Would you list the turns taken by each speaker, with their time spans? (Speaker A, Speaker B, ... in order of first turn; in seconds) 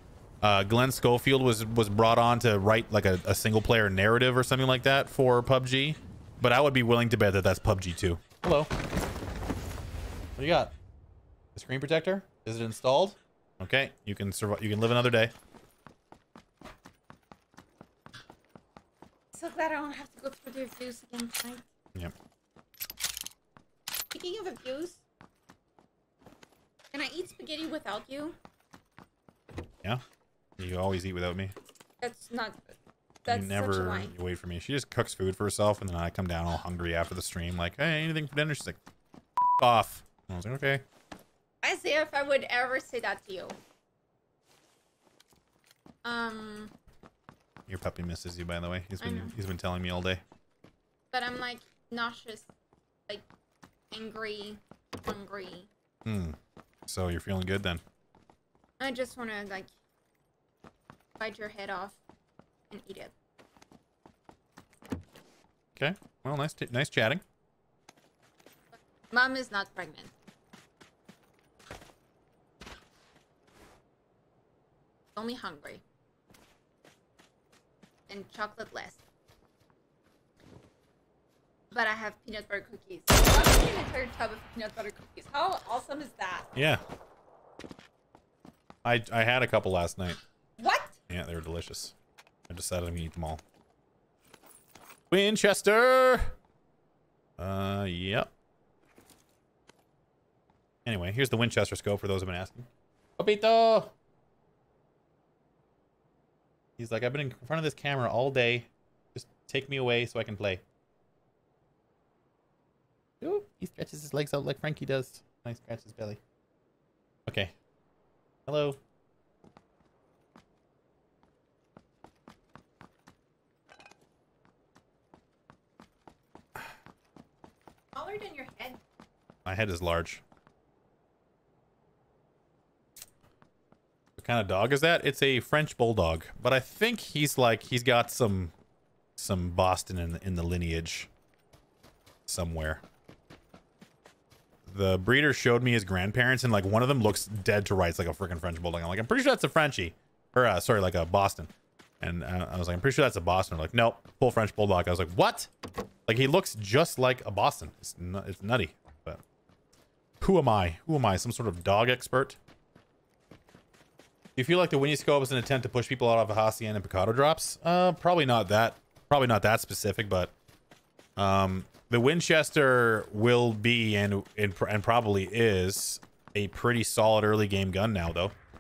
Speaker A: 0.4-8.7, 10.4-10.7, 11.6-15.3, 30.6-31.5, 33.3-38.8, 39.6-40.8, 47.7-50.2, 56.0-57.8, 65.8-67.2, 86.5-86.8, 88.8-90.2, 91.1-92.0, 92.5-93.4, 95.1-96.3, 97.4-98.3, 100.8-103.9, 106.8-110.6, 113.2-116.2, 117.3-117.5, 118.5-118.8, 129.4-130.2, 134.2-138.6, 139.2-141.1, 142.3-142.8, 144.7-155.5, 156.1-159.2, 160.2-162.4, 164.4-170.3, 171.2-178.3
Speaker B: 19.3-21.6, 24.1-25.0, 26.9-28.4, 32.0-34.1, 41.6-43.6, 46.0-46.7, 49.0-49.3, 51.1-52.5, 53.9-55.7, 58.8-59.7, 61.2-62.0, 62.7-63.1, 69.1-70.1, 75.2-75.8, 78.1-79.0, 81.7-86.5, 90.6-91.0, 128.0-128.8